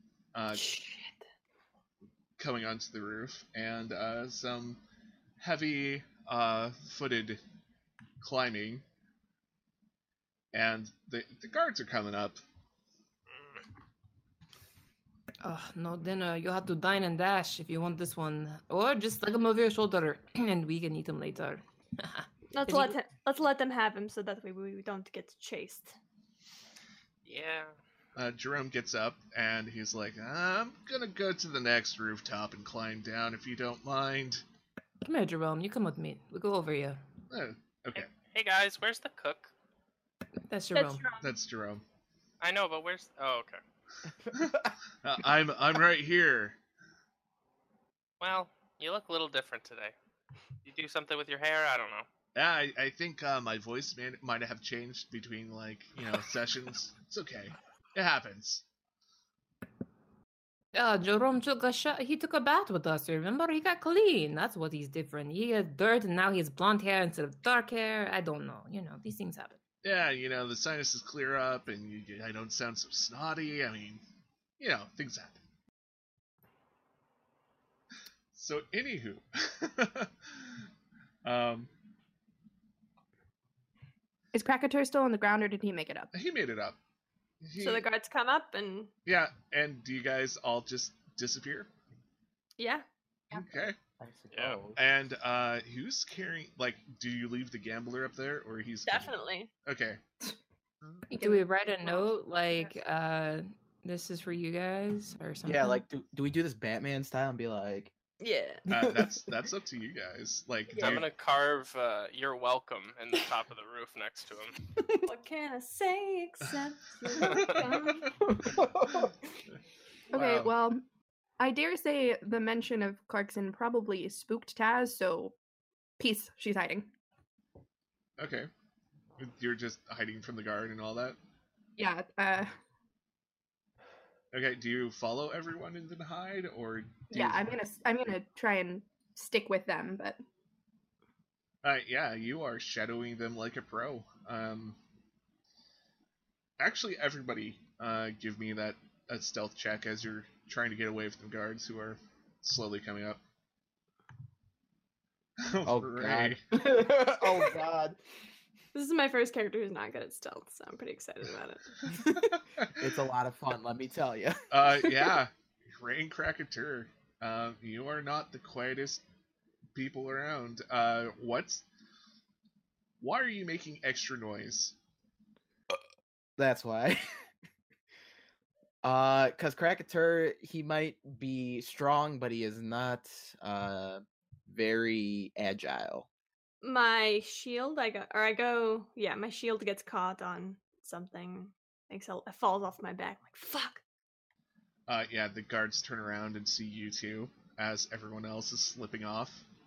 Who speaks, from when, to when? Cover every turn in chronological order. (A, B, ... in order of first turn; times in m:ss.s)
0:00.3-0:00.7 A
0:00.5-0:01.2 B
0:02.4-0:04.8 A
0:05.4-0:07.4 A
0:08.2-0:08.8 A
0:10.5-0:12.4 A
0:15.4-0:23.0 C
0:22.5-0:26.0 B
0:27.2-0:27.7 D
0:28.2-0:34.4 A
0:35.0-0:37.0 C
0:37.3-0:38.1 A
0:37.9-0:39.5 D
0:40.5-0:41.0 C
0:40.7-0:41.3 B
0:41.2-0:41.8 A
0:42.4-0:43.6 D
0:44.4-0:46.6 A
0:48.2-0:49.9 D
0:50.6-0:52.0 D
0:52.3-0:58.6 A
1:00.7-1:09.6 C
1:09.8-1:14.0 A
1:14.6-1:15.4 A
1:18.3-1:20.6 A
1:21.2-1:21.7 A
1:24.3-1:26.1 E
1:26.1-1:26.8 A
1:27.4-1:27.9 A
1:27.6-1:28.9 B
1:29.0-1:31.7 A
1:32.6-1:32.8 B
1:33.3-1:33.7 E
1:33.3-1:33.8 A
1:34.0-1:34.8 F
1:34.3-1:34.6 D
1:34.8-1:39.1 A
1:38.8-1:39.5 B
1:39.6-1:40.0 A
1:41.1-1:45.8 C
1:41.1-1:42.7 E
1:45.4-1:47.9 F
1:48.2-1:48.6 B
1:48.7-1:51.1 A
1:48.7-1:49.2 F
1:50.7-1:51.0 B
1:50.8-1:54.5 D
1:55.0-1:58.0 B
1:57.2-1:57.6 A
1:57.6-1:57.8 E
1:58.3-1:59.1 F
2:00.1-2:00.8 E
2:00.1-2:00.5 A
2:01.4-2:05.3 E
2:06.0-2:06.9 E
2:08.2-2:08.5 A
2:09.2-2:11.2 A
2:11.8-2:12.5 E
2:14.3-2:17.4 A
2:17.1-2:20.2 E
2:21.6-2:24.8 A
2:26.6-2:33.2 A
2:35.4-2:36.4 A
2:35.6-2:38.0 F
2:38.7-2:41.8 B
2:41.9-2:44.9 F
2:44.5-2:49.0 A
2:49.7-2:51.6 A
2:53.0-2:54.7 A
2:56.4-2:57.0 F
2:58.8-3:06.1 F
3:06.6-3:13.8 B
3:14.9-3:19.4 A